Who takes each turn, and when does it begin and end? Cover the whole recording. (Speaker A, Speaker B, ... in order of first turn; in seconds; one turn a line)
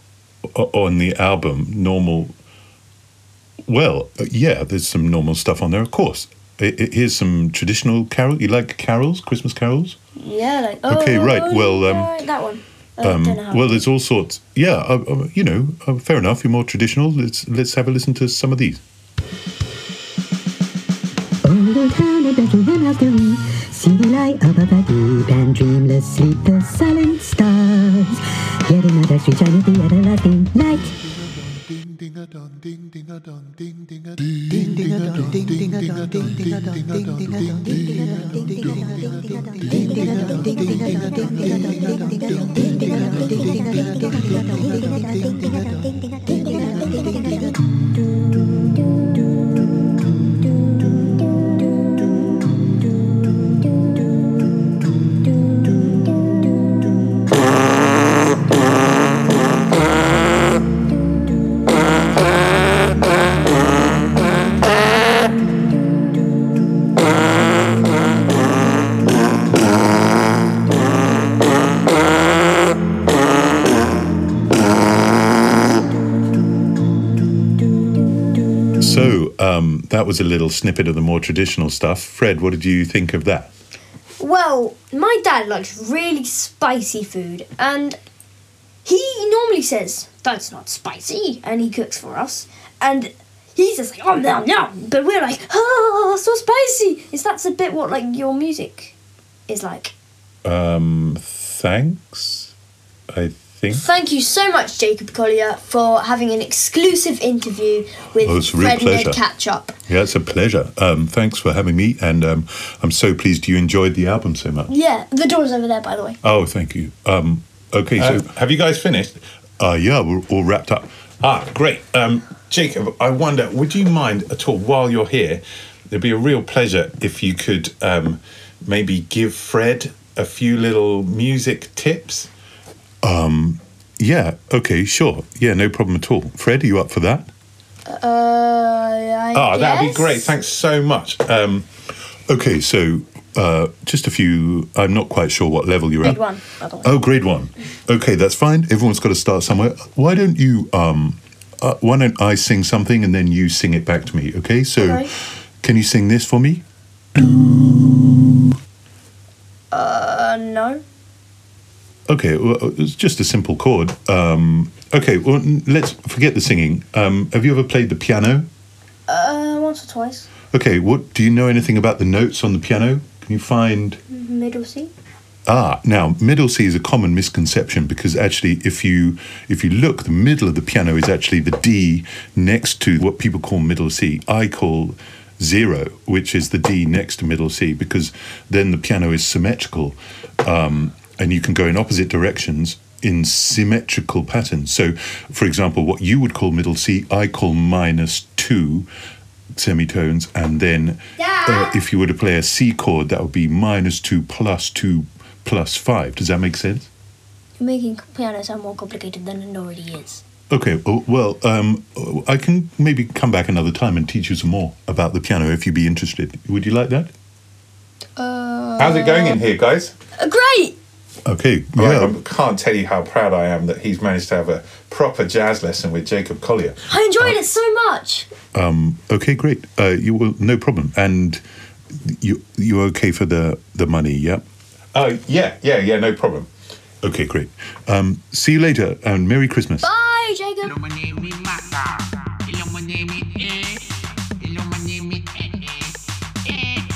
Speaker A: 0.5-2.3
Speaker A: 3.7-9.9
Speaker B: 10.2-13.8
Speaker A: 10.8-12.2
Speaker A: 13.0-18.8
Speaker C: 21.4-30.9
Speaker A: 31.0-47.3
Speaker A: 78.8-83.5
Speaker B: 84.2-88.0
Speaker B: 88.8-98.9
Speaker B: 99.5-99.9
Speaker D: 100.4-102.5
Speaker D: 103.1-103.8
Speaker B: 103.7-109.7
Speaker A: 108.2-109.2
Speaker A: 109.9-114.7
Speaker B: 114.7-116.2
Speaker A: 116.2-118.3
Speaker D: 118.0-119.2
Speaker A: 119.6-120.9
Speaker D: 121.2-132.3
Speaker A: 133.0-137.3
Speaker B: 137.8-140.3
Speaker D: 139.3-141.7
Speaker A: 142.3-146.2
Speaker B: 146.0-146.9
Speaker A: 146.8-156.6
Speaker B: 154.8-155.1
Speaker A: 157.1-158.5
Speaker B: 159.7-160.8
Speaker A: 162.1-168.5
Speaker B: 169.1-170.3
Speaker A: 170.5-174.0
Speaker B: 174.1-174.9
Speaker A: 175.4-198.9
Speaker A: 199.6-206.9
Speaker B: 201.2-201.8
Speaker B: 207.6-210.2
Speaker A: 210.5-217.1
Speaker B: 218.2-219.4
Speaker D: 218.8-219.9
Speaker B: 220.2-220.8
Speaker A: 221.2-222.2
Speaker D: 221.8-227.3
Speaker B: 226.9-228.3
Speaker A: 228.5-234.4
Speaker D: 234.9-236.5
Speaker A: 237.0-239.9
Speaker B: 239.8-241.0
Speaker D: 244.6-245.0